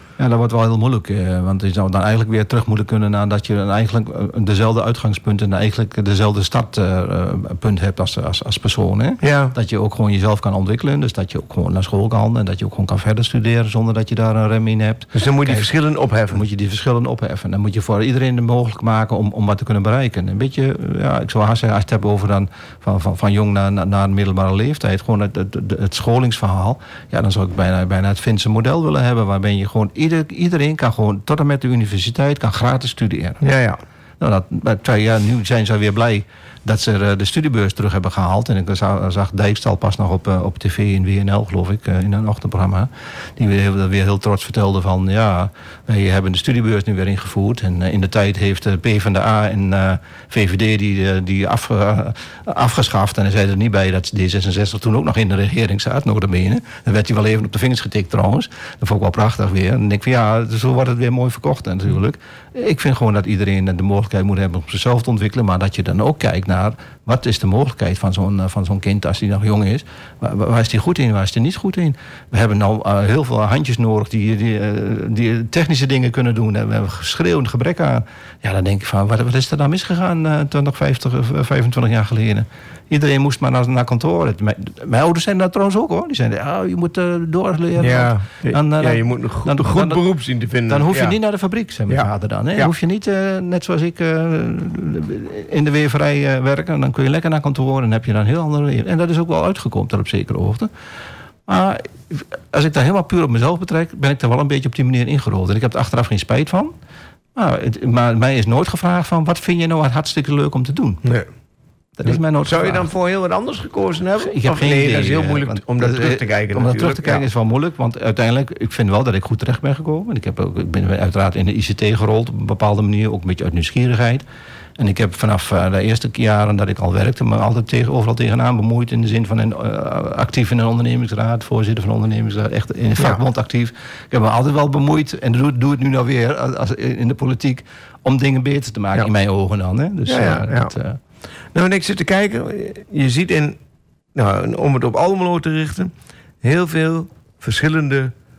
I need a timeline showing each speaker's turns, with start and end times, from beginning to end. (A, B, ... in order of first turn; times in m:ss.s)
0:00.2-0:15.7 A
0:09.2-0:09.6 B
0:15.1-0:16.4 B
0:16.3-0:33.4 A
0:33.4-0:33.8 B
0:34.2-1:30.0 A
1:27.8-1:31.2 B
1:30.7-1:40.7 A
1:31.9-1:32.7 B
1:41.5-1:46.7 A
1:47.3-1:51.0 A
1:52.0-1:52.9 A
1:52.0-1:57.2 B
1:54.2-2:04.2 A
2:04.8-2:21.0 A
2:20.1-2:20.7 B
2:21.5-2:23.6 B
2:24.1-2:28.1 B